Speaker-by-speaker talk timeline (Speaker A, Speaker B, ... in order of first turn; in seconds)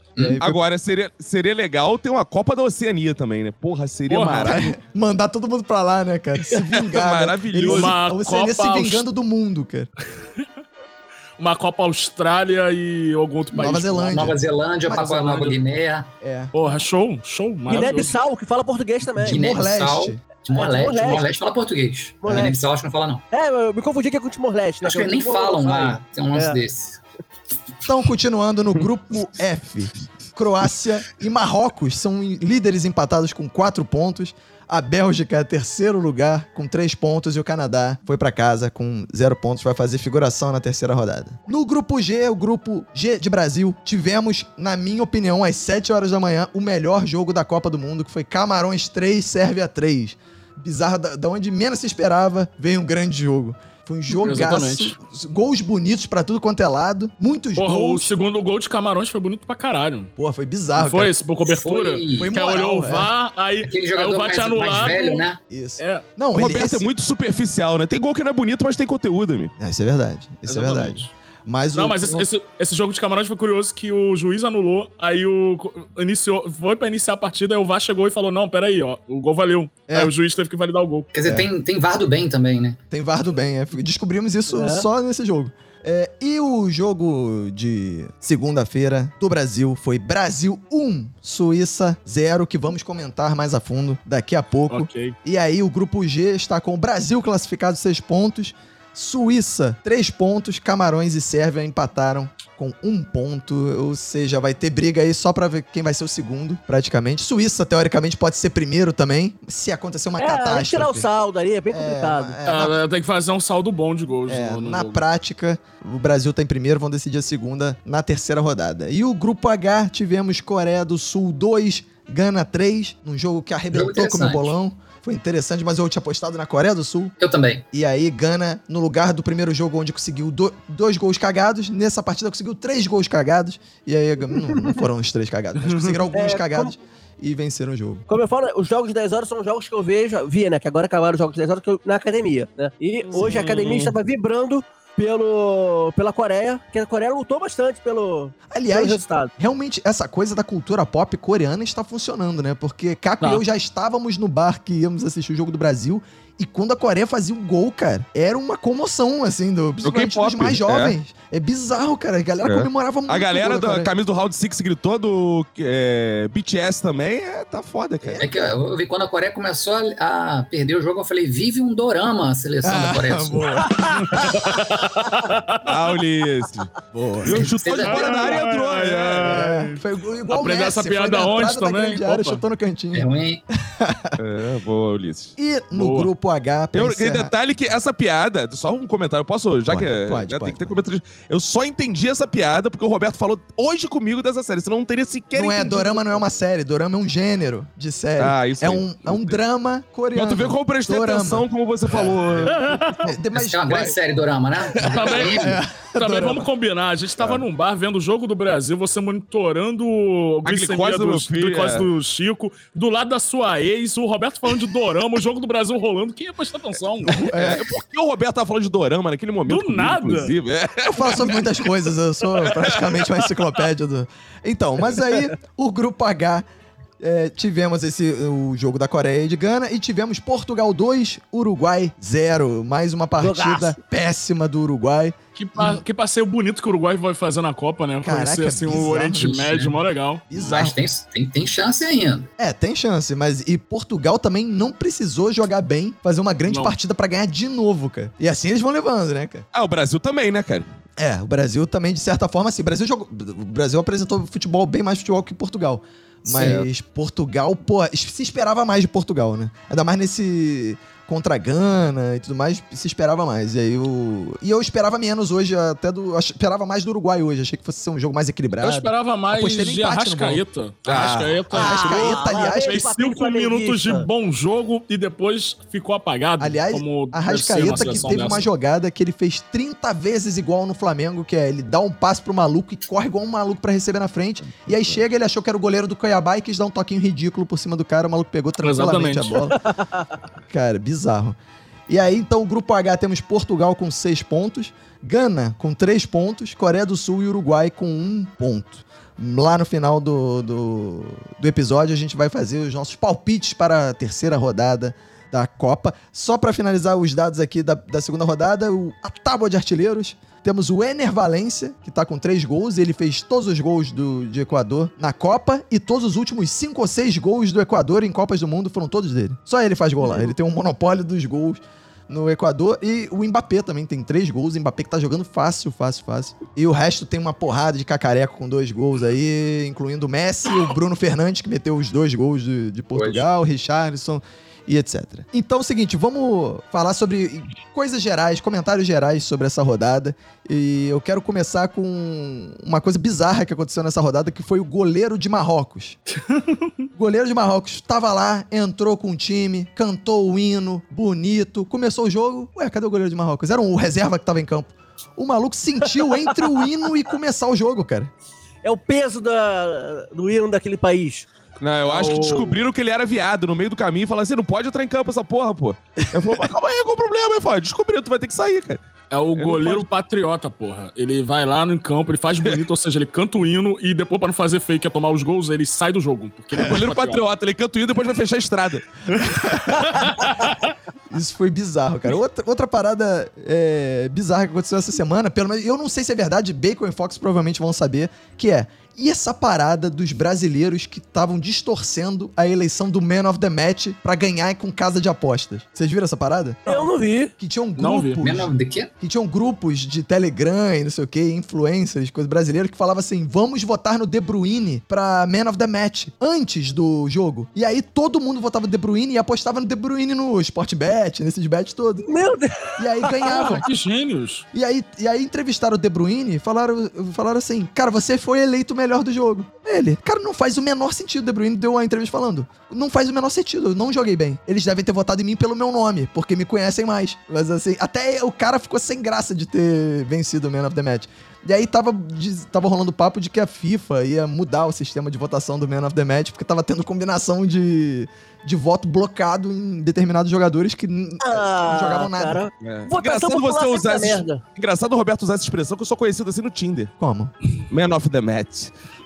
Speaker A: 0.2-0.6, 4.4-9.9, 13.5-15.5, 16.2-16.5, 19.2-20.2, 27.9-58.1, 60.2-61.1, 62.1-63.1, 65.5-66.9, 69.6-72.3, 82.9-111.1, 111.7-112.8, 114.3-127.1, 127.7-138.0, 143.2-143.4, 148.5-163.9, 168.0-168.3, 172.6-174.2, 176.9-177.5, 179.2-184.2, 185.4-187.3, 189.7-190.7, 195.3-203.9, 205.1-206.5, 217.1-217.7, 220.8-226.4, 227.0-235.8, 238.0-239.4, 240.3-240.8, 242.4-249.4, 251.0-270.4, 271.5-272.8, 276.4-289.6, 290.5-291.4, 291.9-346.0, 346.9-358.1, 379.2-380.0, 381.1-396.8, 397.4-412.1, 412.8-413.7, 414.5-442.4, 447.0-447.3
Speaker B: 0.4-4.7, 6.8-7.9, 66.3-69.5, 159.8-160.9, 162.4-168.2, 175.6-179.3, 184.2-185.3, 186.7-196.2, 198.2-199.4, 200.1-203.0, 210.4-211.9, 217.2-221.4, 222.5-222.8, 249.5-250.7, 256.2-256.7, 270.9-271.4, 284.5-284.8, 361.6-368.8, 369.4-369.8, 376.6-378.9, 442.6-446.9, 447.7-448.7
Speaker C: 4.1-4.6, 7.6-9.0, 11.4-14.3, 16.5-18.1, 54.1-55.0, 57.6-60.1, 60.7-65.2, 65.8-66.0, 70.5-71.1, 71.7-81.1, 94.7-95.1, 112.5-115.0, 135.6-136.0, 143.2-143.9, 174.0-175.6, 177.8-182.4, 185.7-186.1, 202.5-203.1, 204.8-217.3, 219.5-220.3, 235.3-240.2, 246.5-246.7, 268.6-278.4, 288.6-289.5, 346.3-346.6, 361.9-362.6, 369.1-377.2, 379.7-380.6, 397.8-398.2, 413.3-414.4
Speaker D: 13.7-16.1, 19.2-23.2, 24.8-27.0, 61.4-62.3, 63.6-65.4, 81.1-82.8, 123.7-124.5, 127.2-127.6, 168.2-173.7, 177.3-178.4, 182.9-183.4, 203.3-205.6, 239.2-239.7, 240.3-242.3, 270.9-271.2, 332.9-333.2, 398.2-398.9
Speaker E: 17.7-19.4, 20.5-21.3, 22.2-22.6, 23.3-26.6, 84.5-84.9, 110.2-112.4, 134.5-134.8, 136.1-136.7, 138.1-149.3, 233.2-233.8, 271.5-274.1, 289.5-290.1, 358.6-361.3, 396.7-397.3, 412.1-413.6, 441.2-444.4